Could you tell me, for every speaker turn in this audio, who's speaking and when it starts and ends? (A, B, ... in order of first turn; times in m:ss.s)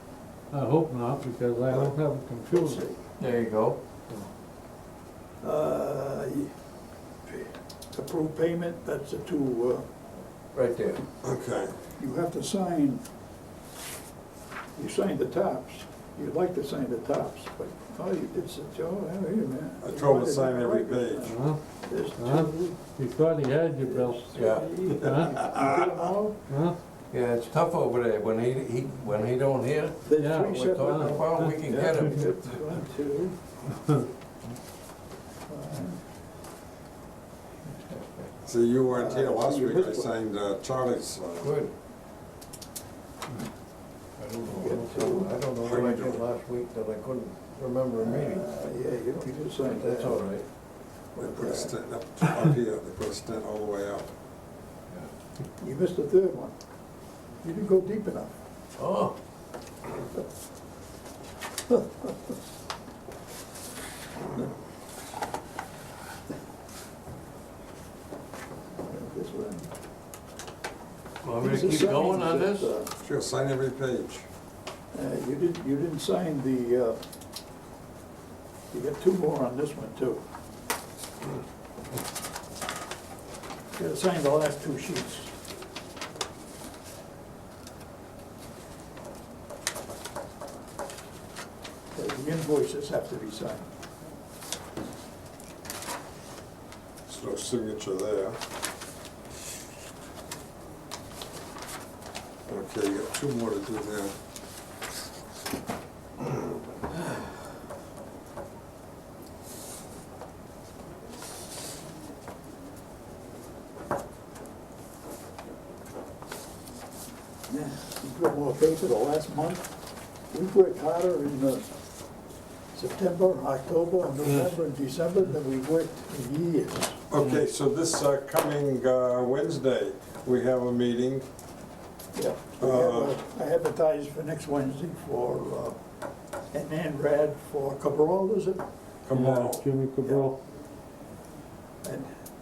0:00.5-0:02.8 A
0:02.5-0:03.0 B
0:03.2-0:03.8 C
0:05.4-0:06.5 B
0:07.3-0:09.9 B
0:10.5-0:11.0 C
0:11.2-0:11.8 D
0:12.0-0:13.0 B
0:14.8-0:22.8 B
0:19.8-0:21.4 D
0:21.3-0:21.6 A
0:22.2-0:25.4 A
0:23.8-0:26.4 B
0:24.4-0:24.7 C
0:25.0-0:26.1 D
0:26.5-0:26.8 A
0:27.1-0:32.6 C
0:30.0-0:33.4 B
0:30.2-0:31.5 A
0:35.5-0:36.0 B
0:37.9-0:38.3 C
0:38.4-0:41.6 D
0:38.9-0:40.1 B
0:41.4-0:41.7 C
0:44.2-0:48.5 C
0:44.5-0:45.3 B
0:45.6-0:46.2 D
0:48.0-0:50.2 B
0:49.6-0:50.5 C
0:51.2-0:51.7 B
0:51.2-0:54.1 D
0:55.6-0:56.5 B
0:57.4-0:58.3 B
0:58.8-0:59.2 C
1:01.7-1:02.1 B
1:08.8-1:09.7 B
1:11.2-1:12.7 C
1:11.4-1:12.9 B
1:13.0-1:14.2 D
1:14.9-1:17.0 B
1:18.7-1:20.2 B
1:23.8-1:25.3 B
1:32.0-1:33.7 B
1:37.1-1:38.4 D
1:42.5-1:44.1 D
1:57.5-1:59.7 B
2:00.3-2:01.7 B
2:02.7-2:07.0 B
2:07.1-2:11.2 D
2:12.2-2:15.8 B
2:12.6-2:13.2 D
2:16.5-2:18.6 B
2:19.0-2:19.6 D
2:19.1-2:20.4 A
2:21.8-2:22.1 B